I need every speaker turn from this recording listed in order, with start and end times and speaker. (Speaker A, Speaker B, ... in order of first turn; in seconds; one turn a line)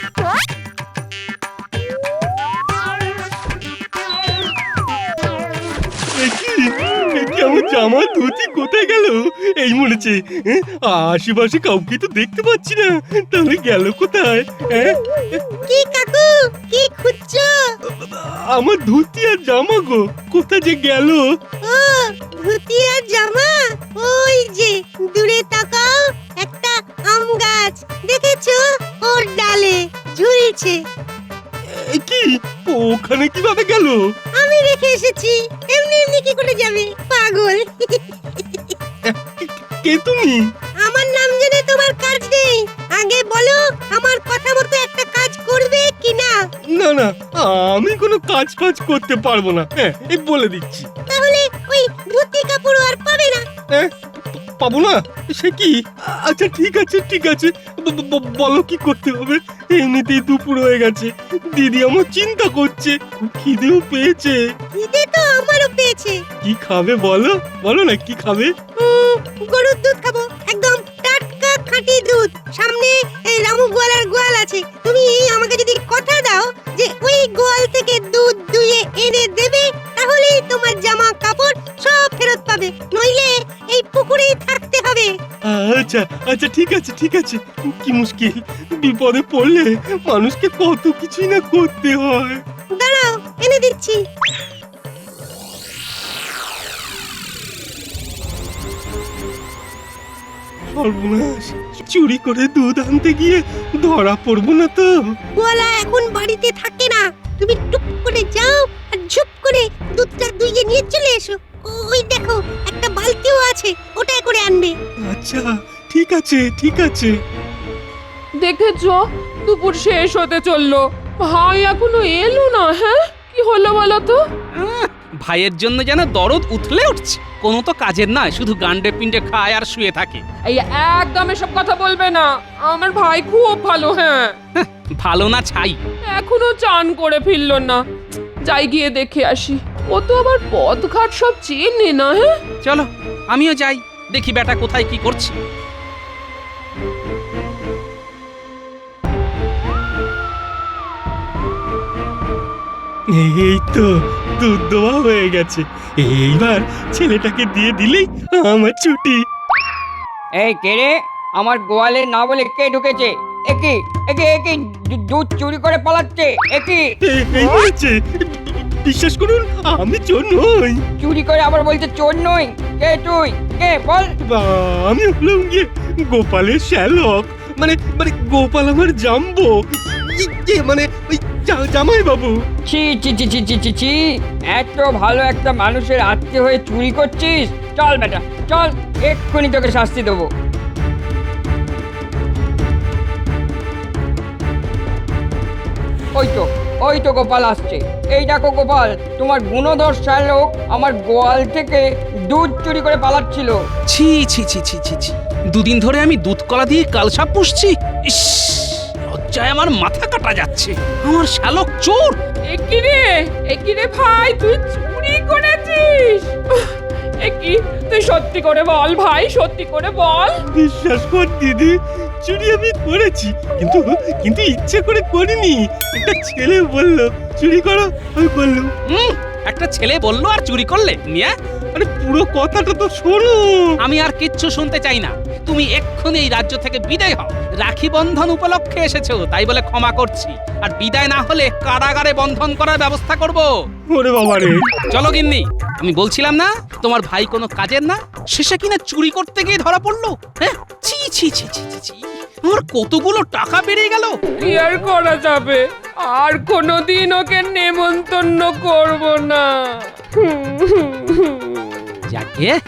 Speaker A: 6.2-15.4
Speaker B: 15.7-17.5
Speaker A: 18.0-21.2
Speaker B: 21.7-25.9
Speaker B: 26.4-30.8
Speaker A: 31.7-34.0
Speaker B: 34.4-38.7
Speaker A: 39.1-40.4
Speaker B: 40.8-46.4
Speaker A: 46.8-50.9
Speaker B: 51.1-53.4
Speaker A: 54.6-64.4
Speaker B: 64.7-66.2
Speaker A: 66.4-68.5
Speaker B: 68.8-85.1
Speaker A: 85.5-92.4
Speaker B: 92.7-94.0
Speaker A: 100.7-104.9
Speaker B: 105.4-114.7
Speaker A: 115.1-117.1
Speaker C: 118.4-124.2
Speaker D: 124.6-130.2
Speaker C: 130.5-134.4
Speaker D: 134.6-135.8
Speaker C: 136.1-137.8
Speaker C: 138.5-142.3
Speaker D: 142.6-145.4
Speaker A: 153.2-159.2
Speaker E: 160.4-166.9
Speaker A: 167.0-170.8
Speaker E: 171.0-174.1
Speaker A: 174.2-182.3
Speaker E: 182.7-190.3
Speaker E: 196.1-203.6
Speaker D: 203.9-212.2
Speaker C: 212.5-220.4
Speaker A: 220.6-228.7
Speaker D: 228.9-231.3
Speaker A: 231.7-233.7
Speaker D: 233.8-243.5
Speaker A: 243.9-244.6
Speaker D: 244.9-254.1
Speaker C: 254.4-261.7
Speaker D: 262.1-262.6